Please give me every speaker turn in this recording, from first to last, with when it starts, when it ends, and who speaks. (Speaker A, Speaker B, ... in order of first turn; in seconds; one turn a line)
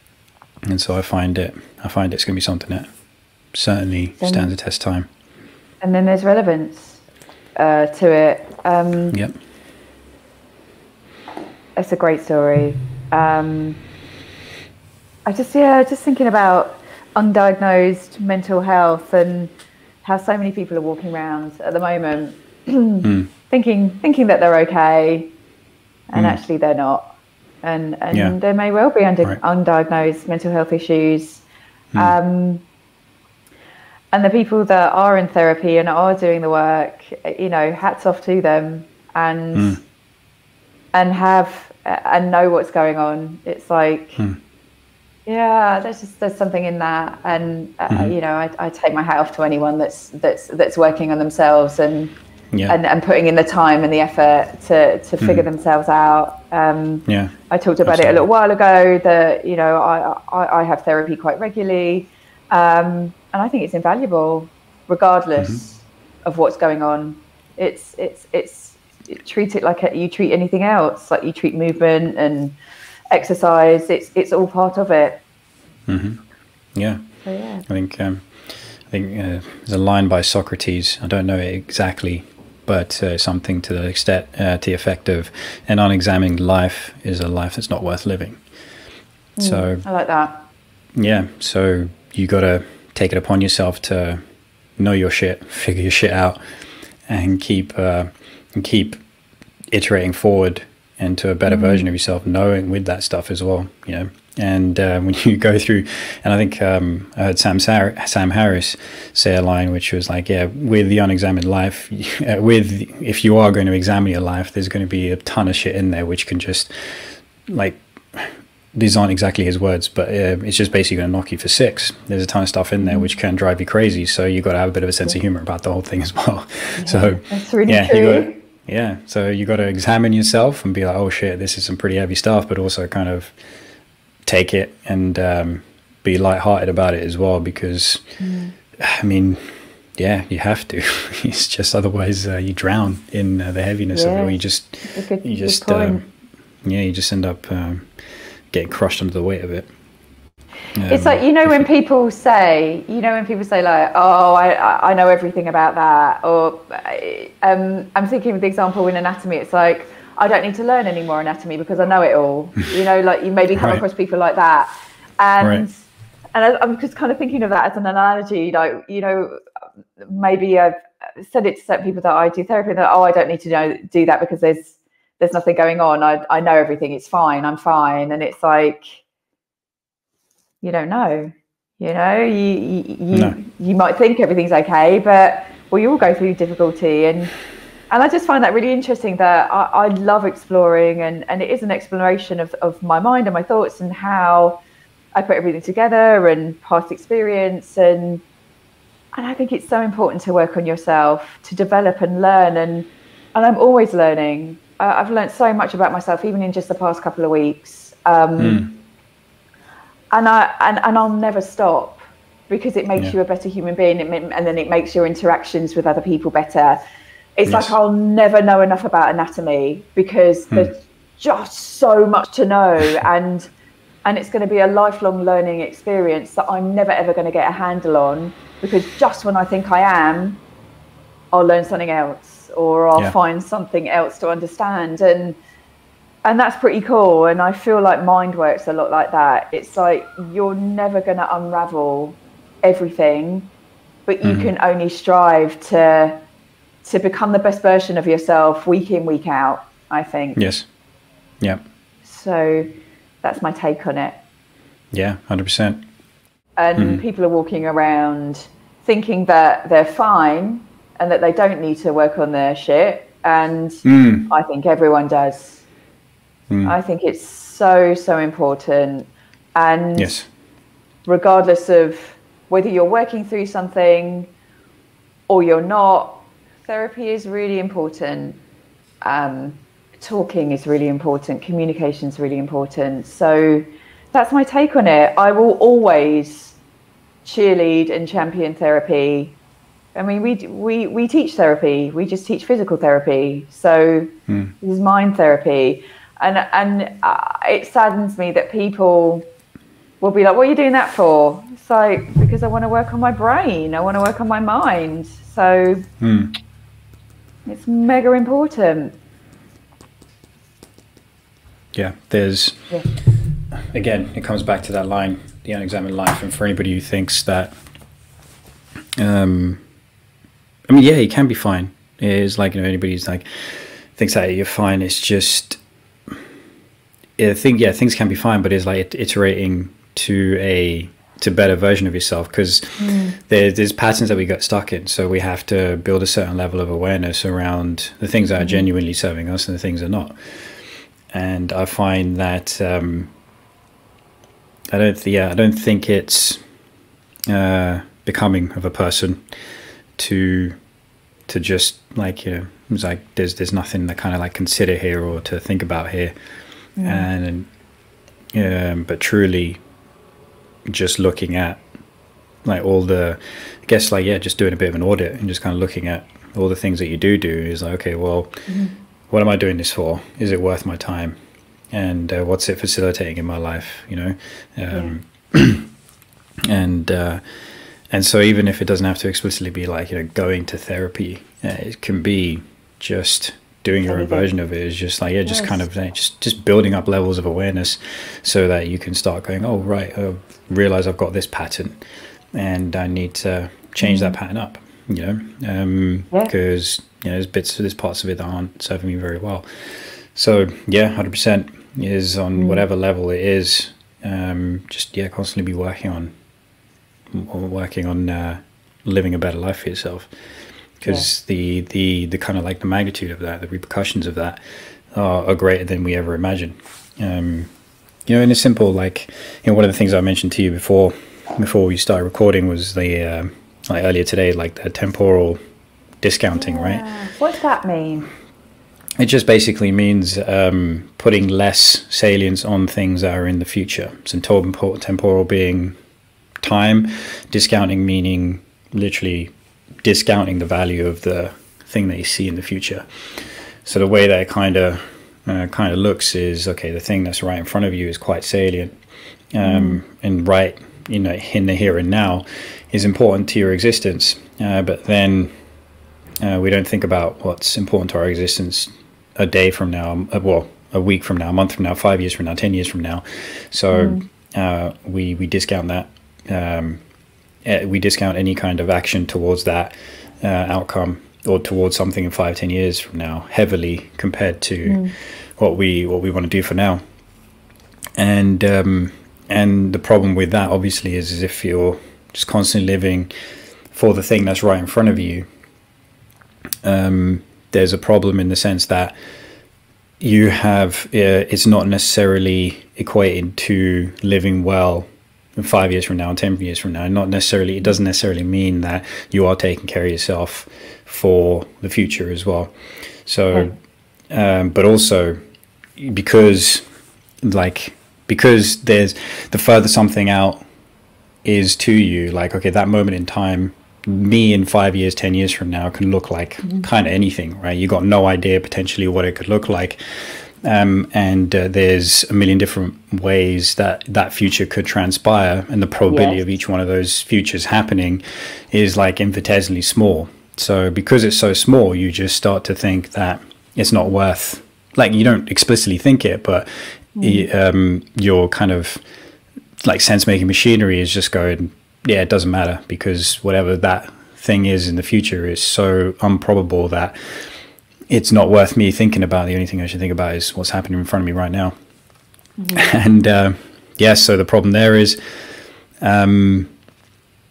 Speaker A: 0.7-2.9
Speaker A: 3.5-5.1
Speaker B: 4.2-4.5
Speaker B: 5.8-7.0
Speaker B: 7.6-9.2
Speaker B: 11.8-13.8
Speaker B: 15.3-25.3
Speaker A: 23.0-23.3
Speaker B: 26.1-27.1
Speaker B: 27.6-31.4
Speaker B: 31.9-32.6
Speaker B: 34.1-39.8
Speaker A: 39.5-39.8
Speaker B: 40.9-44.2
Speaker B: 45.3-52.1
Speaker B: 52.7-72.6
Speaker A: 55.2-55.5
Speaker A: 57.1-57.3
Speaker A: 57.9-58.2
Speaker B: 73.1-75.2
Speaker A: 75.9-76.2
Speaker A: 76.8-77.0
Speaker B: 77.2-77.7
Speaker A: 77.7-88.4
Speaker B: 89.4-90.5
Speaker A: 89.4-89.8
Speaker A: 91.0-94.2
Speaker A: 94.8-96.4
Speaker A: 97.1-99.0
Speaker A: 99.7-116.7
Speaker B: 101.5-101.9
Speaker A: 117.5-133.3
Speaker B: 122.8-123.1
Speaker B: 126.8-128.3
Speaker A: 134.3-138.0
Speaker B: 138.2-138.5
Speaker A: 138.8-146.0
Speaker B: 143.9-144.4
Speaker B: 144.9-146.0
Speaker A: 146.7-147.9
Speaker A: 148.5-149.7
Speaker A: 150.8-151.6
Speaker B: 150.9-165.8
Speaker A: 163.6-163.8
Speaker A: 165.4-165.7
Speaker B: 166.3-169.4
Speaker B: 170.0-179.0
Speaker B: 180.6-187.3
Speaker A: 183.1-183.4
Speaker B: 187.9-194.6
Speaker B: 195.2-198.2
Speaker B: 199.1-208.7
Speaker A: 208.4-208.7
Speaker B: 210.1-216.8
Speaker B: 217.4-223.5
Speaker A: 217.5-217.7
Speaker B: 224.1-230.4
Speaker B: 231.3-235.4
Speaker B: 236.2-243.5
Speaker B: 244.1-246.2
Speaker A: 244.2-244.5
Speaker B: 246.8-250.4
Speaker A: 250.4-250.7
Speaker B: 252.0-252.7
Speaker B: 253.2-254.2
Speaker A: 254.9-255.8
Speaker B: 256.6-265.6
Speaker A: 256.8-257.0
Speaker A: 263.9-264.3
Speaker A: 266.5-266.8
Speaker B: 266.6-270.1
Speaker A: 270.0-270.3
Speaker B: 271.1-274.3
Speaker B: 275.3-278.4
Speaker B: 279.0-286.6
Speaker B: 287.2-289.4
Speaker B: 289.9-299.3
Speaker A: 294.3-294.5
Speaker B: 300.0-305.9
Speaker A: 306.0-306.4
Speaker B: 307.5-308.9
Speaker A: 311.8-312.7
Speaker A: 313.7-317.6
Speaker A: 319.0-319.6
Speaker A: 320.7-325.6
Speaker A: 327.2-340.2
Speaker B: 332.8-333.2
Speaker B: 338.4-338.7
Speaker A: 341.1-343.1
Speaker A: 344.7-346.4
Speaker A: 347.3-349.2
Speaker A: 350.0-350.6
Speaker A: 351.3-356.1
Speaker B: 356.8-357.1
Speaker A: 356.8-357.5
Speaker A: 358.3-359.6
Speaker A: 360.7-361.6
Speaker A: 362.4-368.4
Speaker B: 368.5-368.7
Speaker A: 369.1-371.2
Speaker A: 371.7-375.7
Speaker A: 376.5-377.2
Speaker A: 377.9-391.8
Speaker B: 383.9-384.3
Speaker B: 385.3-385.6
Speaker A: 392.4-399.4
Speaker B: 393.8-394.2
Speaker A: 400.1-406.1
Speaker B: 402.4-402.6
Speaker A: 407.1-410.1
Speaker A: 410.8-414.4
Speaker A: 414.9-417.5
Speaker A: 418.1-425.4
Speaker A: 426.0-426.8
Speaker B: 426.4-428.1
Speaker A: 429.0-435.8
Speaker A: 436.4-439.3
Speaker A: 439.8-442.9
Speaker A: 443.6-448.8
Speaker A: 449.3-455.3
Speaker B: 449.4-449.8
Speaker A: 456.2-466.8
Speaker B: 463.7-464.1
Speaker A: 467.4-476.8
Speaker B: 474.7-474.9
Speaker A: 478.0-483.1
Speaker A: 483.7-485.3
Speaker A: 486.6-488.9
Speaker A: 490.0-502.5
Speaker A: 503.1-503.6
Speaker A: 504.1-505.2
Speaker A: 505.8-506.6
Speaker A: 507.2-510.4
Speaker A: 511.2-536.5
Speaker B: 525.9-526.2
Speaker B: 537.0-537.3
Speaker A: 537.0-538.8
Speaker A: 539.6-547.0
Speaker A: 547.9-551.5
Speaker B: 552.4-552.7
Speaker A: 552.5-555.0
Speaker A: 555.8-556.5